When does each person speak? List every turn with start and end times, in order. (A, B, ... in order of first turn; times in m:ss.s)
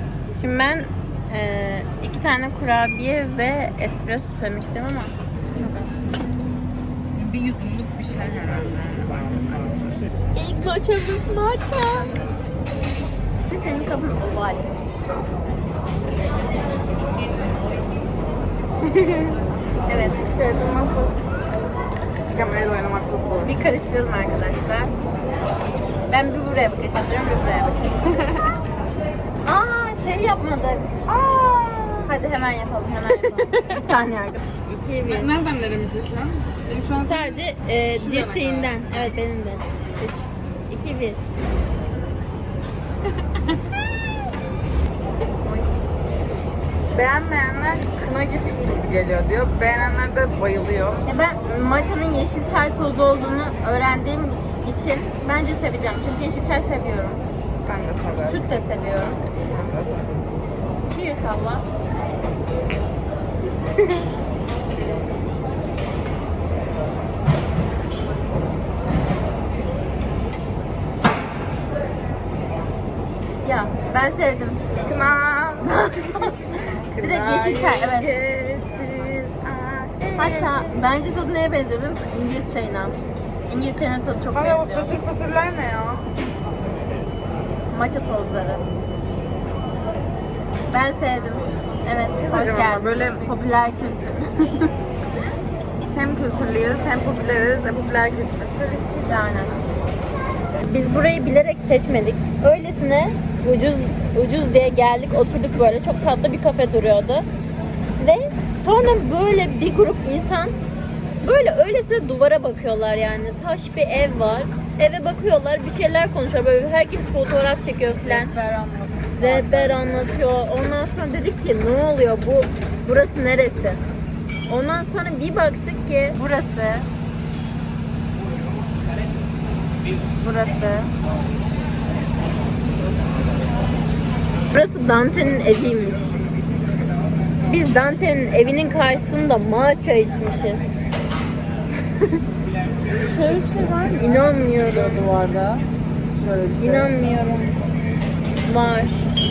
0:00.3-0:06.1 A
0:07.2-0:10.0 B
0:10.4-0:12.2 A
0:13.5-0:14.7 A
0:19.9-0:20.4 A
0:20.2-0:21.2 B
0:22.3-0:23.5 B
0:23.4-0:24.9 A
0:26.1-0:28.4 A
0:29.4-0:30.9 A
0:31.1-0:32.2 B
0:32.1-0:35.3 A
0:33.2-0:33.8 B
0:35.0-0:37.4 B
0:37.0-0:41.2 A
0:37.9-0:39.1 B
0:45.4-0:45.7 A
0:46.9-0:51.0 B
0:51.1-0:57.2 A
0:57.6-0:58.6 B
0:58.3-0:59.2 A
0:59.5-1:00.0 B
1:00.9-1:01.6 A
1:13.4-1:16.4 A
1:16.9-1:20.7 B
1:17.0-1:18.2 A
1:20.2-1:25.0 A
1:24.3-1:26.1 B
1:27.7-1:28.6 A
1:30.7-1:34.7 A
1:32.2-1:33.3 B
1:35.9-1:39.2 B
1:39.0-1:39.6 A
1:40.6-1:47.3 A
1:48.0-1:50.5 A
1:51.2-1:58.3 A
1:58.0-2:00.1 B
1:59.2-2:03.8 A
2:04.5-2:06.9 A
2:10.2-2:10.9 A
2:14.5-2:16.2 A
2:17.5-2:20.8 A
2:22.9-2:26.9 B
2:24.0-2:25.1 A
2:26.6-2:27.6 A
2:28.4-2:29.0 A